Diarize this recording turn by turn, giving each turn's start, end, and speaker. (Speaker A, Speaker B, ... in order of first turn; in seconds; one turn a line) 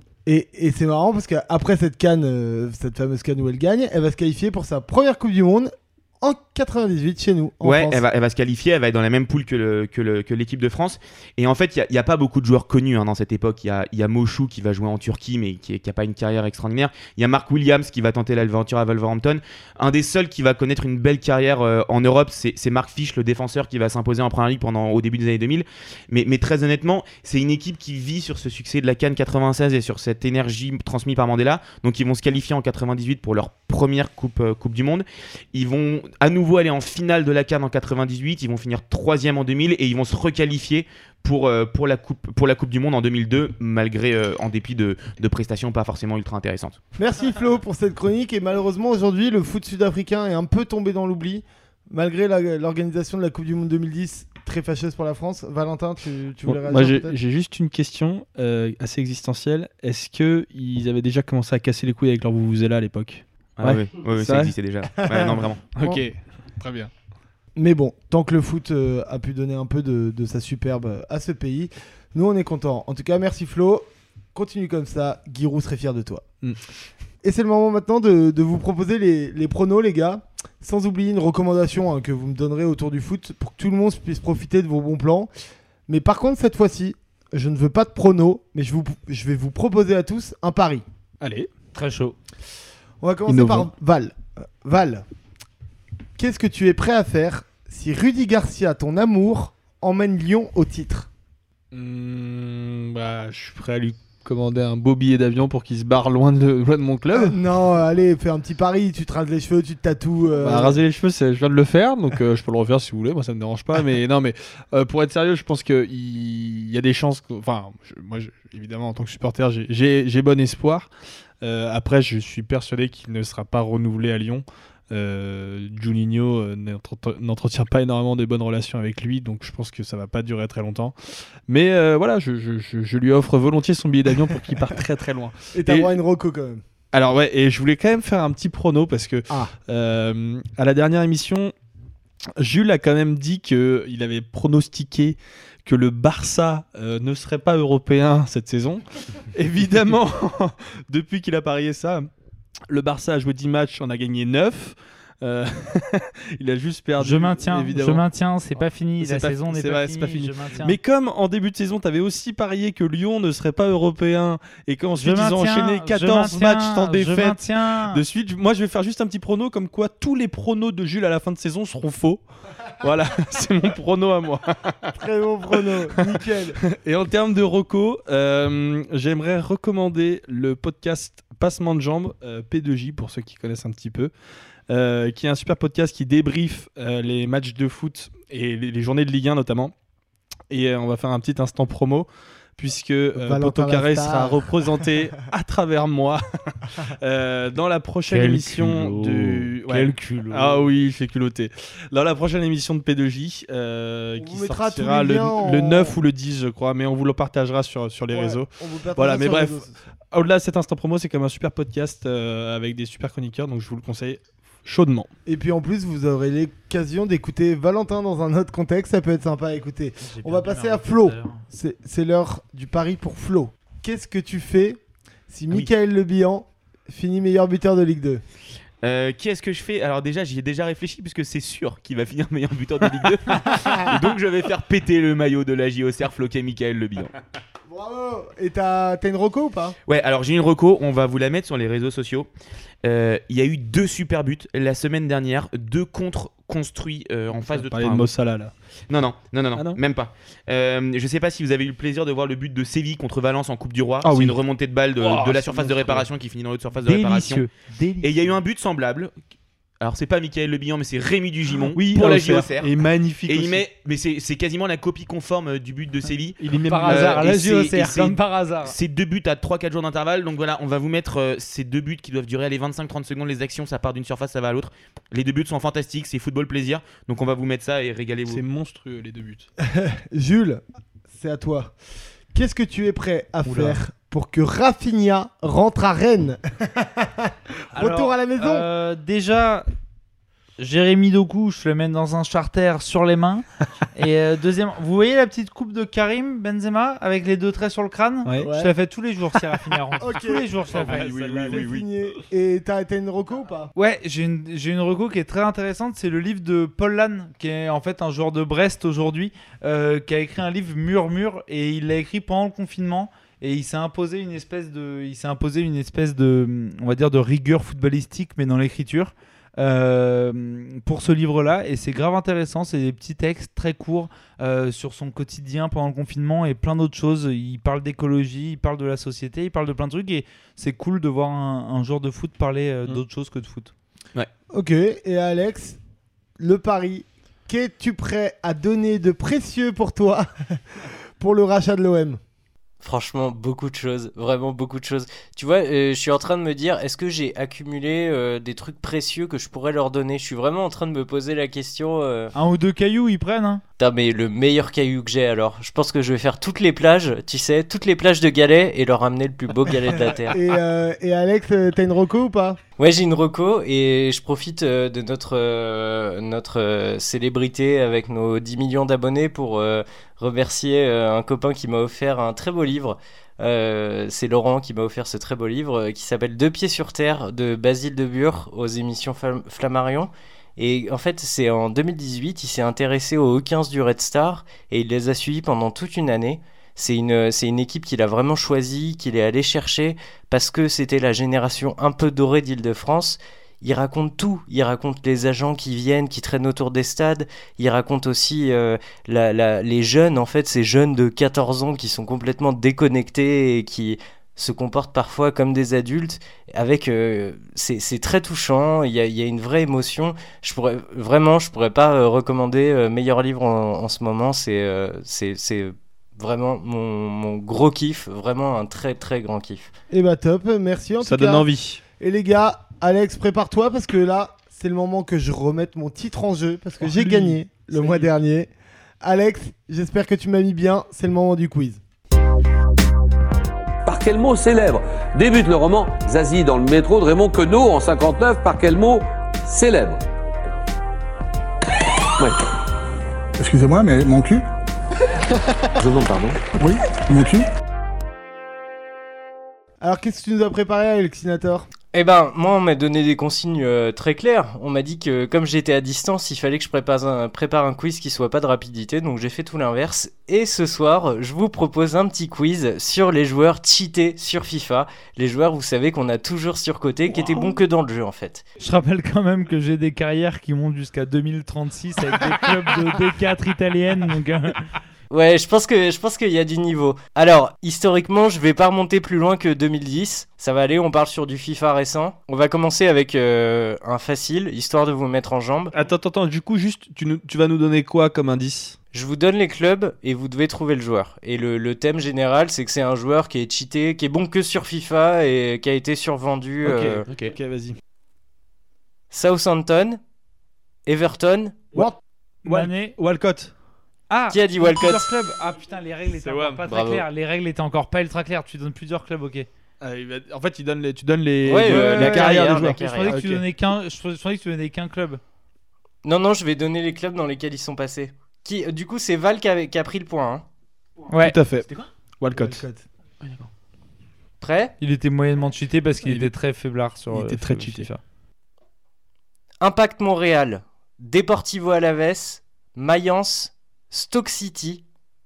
Speaker A: 0.2-8.0
Speaker B: 7.6-46.8
Speaker A: 47.0-57.1
Speaker C: 56.5-64.5
Speaker B: 63.6-65.7
Speaker A: 65.0-66.0
Speaker C: 65.7-66.9
Speaker A: 67.5-76.2
Speaker A: 77.2-85.3
Speaker A: 85.9-90.8
Speaker C: 91.2-91.5
Speaker D: 91.7-92.2
Speaker A: 93.0-95.0
Speaker C: 93.2-93.7
Speaker A: 96.2-101.1
Speaker C: 101.7-107.4
Speaker A: 107.1-110.8
Speaker C: 110.3-120.9
Speaker C: 121.4-130.9
Speaker C: 131.5-136.0
Speaker A: 135.5-136.6
Speaker C: 136.9-141.5
Speaker C: 142.4-152.1
Speaker C: 152.7-158.0
Speaker D: 157.0-160.8
Speaker C: 159.0-172.2
Speaker D: 165.0-168.0
Speaker C: 172.8-174.9
Speaker A: 174.9-176.6
Speaker C: 176.1-184.1
Speaker C: 184.7-189.7
Speaker C: 190.5-196.2
Speaker A: 193.2-194.5
Speaker C: 196.8-215.1
Speaker D: 198.1-200.7
Speaker A: 204.2-205.9
Speaker A: 208.1-209.8
Speaker A: 215.2-224.8
Speaker D: 220.1-221.4
Speaker A: 225.3-228.2
Speaker B: 228.8-237.1
Speaker A: 233.5-233.8
Speaker A: 237.7-239.8
Speaker B: 239.9-242.3
Speaker B: 242.8-248.1
Speaker C: 247.5-248.5
Speaker B: 248.9-257.4
Speaker C: 254.0-254.4
Speaker C: 255.0-256.1
Speaker D: 256.8-258.4
Speaker B: 258.0-259.1
Speaker B: 259.8-262.7
Speaker C: 261.7-263.6
Speaker B: 263.3-278.4
Speaker C: 266.4-267.7
Speaker D: 266.6-268.7
Speaker C: 278.3-279.5
Speaker A: 279.6-281.7
Speaker A: 282.3-288.6
Speaker D: 283.4-283.8
Speaker D: 287.7-289.6
Speaker D: 290.6-301.7
Speaker A: 298.4-298.7
Speaker A: 300.0-300.8
Speaker C: 300.7-301.9
Speaker A: 301.5-303.7
Speaker D: 303.7-333.7
Speaker A: 334.5-335.8
Speaker A: 336.4-340.6
Speaker A: 341.2-342.2
Speaker E: 342.8-352.3
Speaker D: 352.3-353.6
Speaker E: 353.8-360.4
Speaker A: 360.3-362.6
Speaker E: 362.8-419.7
Speaker A: 419.9-421.5
Speaker C: 421.0-421.8
Speaker A: 422.0-428.5
Speaker C: 426.8-428.1
Speaker A: 429.0-431.8
Speaker F: 433.9-440.0
Speaker G: 443.4-444.4
Speaker F: 445.8-446.4
Speaker G: 446.6-447.5
Speaker A: 449.8-451.7
Speaker E: 451.9-468.4
Speaker D: 468.6-474.6
Speaker E: 475.1-485.7
Speaker C: 485.7-488.8
Speaker E: 488.9-497.1
Speaker C: 496.6-497.8
Speaker E: 499.1-500.0
Speaker E: 500.9-501.6
Speaker D: 502.4-502.9
Speaker C: 502.4-503.5
Speaker D: 504.1-509.5
Speaker E: 504.3-505.1
Speaker C: 506.1-507.0
Speaker C: 509.8-513.4
Speaker E: 511.5-513.2
Speaker D: 511.7-515.2
Speaker E: 516.0-520.4
Speaker D: 521.1-521.4
Speaker C: 521.1-521.7
Speaker C: 522.2-522.6
Speaker A: 522.3-522.9
Speaker E: 524.4-524.7
Speaker D: 524.8-528.0
Speaker C: 526.0-526.3
Speaker C: 527.1-527.9
Speaker E: 529.6-534.8